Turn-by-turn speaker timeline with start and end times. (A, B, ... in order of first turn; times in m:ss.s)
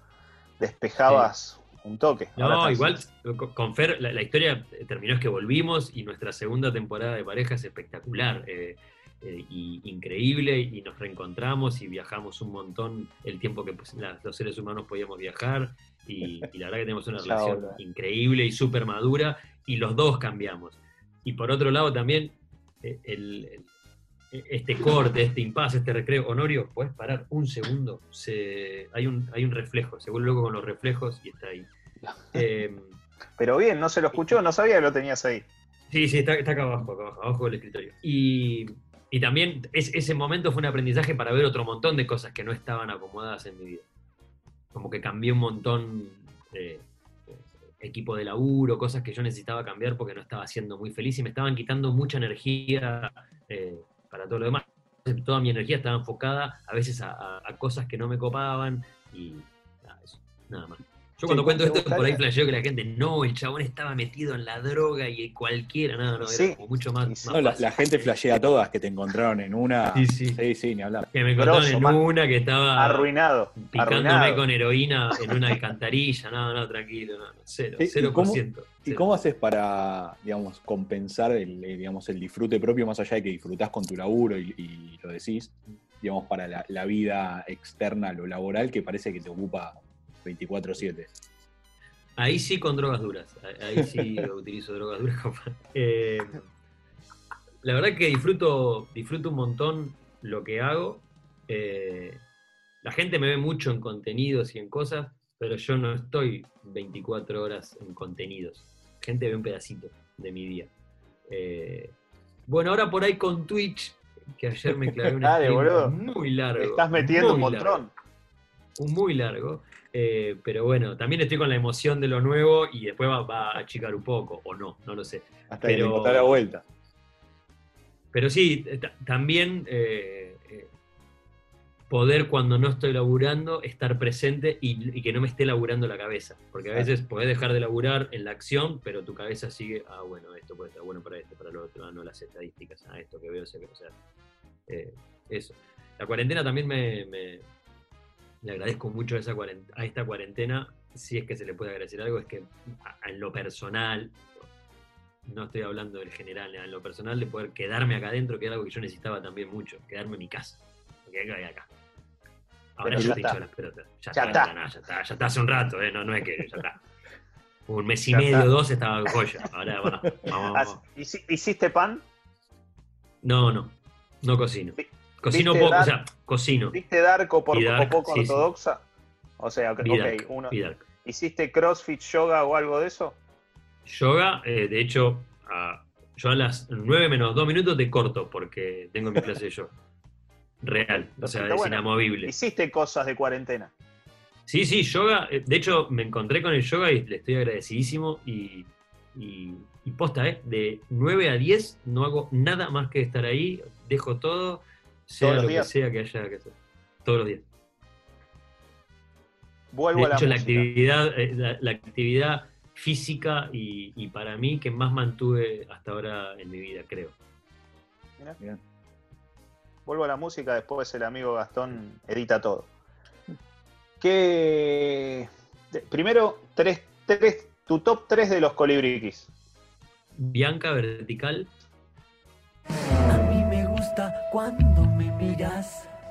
0:00.6-0:03.0 A
0:01.0-0:01.3 B
0:02.4-0:23.7 B
0:17.1-0:17.8 A
0:24.3-0:31.7 B
0:32.0-0:32.4 A
0:32.3-0:33.0 B
0:33.4-0:35.4 A
0:35.9-0:43.8 B
0:44.7-1:08.1 B
1:01.2-1:02.2 A
1:06.2-1:07.4 A
1:07.3-1:11.1 C
1:09.9-1:10.4 B
1:11.1-1:19.1 B
1:11.4-1:12.0 A
1:12.8-1:14.4 A
1:17.8-1:31.1 C
1:32.2-1:36.4 B
1:37.6-1:42.2 B
1:42.8-1:50.7 B
1:51.3-1:51.9 B
1:52.5-1:57.8 B
1:55.2-1:55.9 A
1:56.6-1:57.9 A
1:58.8-2:06.4 B
2:05.5-2:06.6 C
2:08.1-2:10.7 B
2:11.9-2:23.9 B
2:24.7-2:27.4 B
2:28.4-2:34.2 B
2:35.2-2:41.7 B
2:42.8-2:46.8 B
2:42.8-2:43.4 A
2:44.1-2:44.5 A
2:47.7-2:50.8 B
2:48.1-2:48.5 A
2:50.5-2:52.0 A
2:53.2-2:56.8 B
2:54.8-2:55.9 A
2:56.7-2:58.8 A
2:57.5-2:58.4 B
2:59.4-3:03.2 A
2:59.8-3:00.8 B
3:03.8-3:09.7 B
3:10.6-3:12.3 B
3:10.9-3:13.7 A
3:14.5-3:27.4 B
3:25.2-3:25.7 A
3:29.7-3:30.7 A
3:29.9-3:37.1 B
3:39.8-3:42.7 A
3:44.0-3:49.3 A
3:50.2-3:51.5 B
3:53.1-3:55.9 D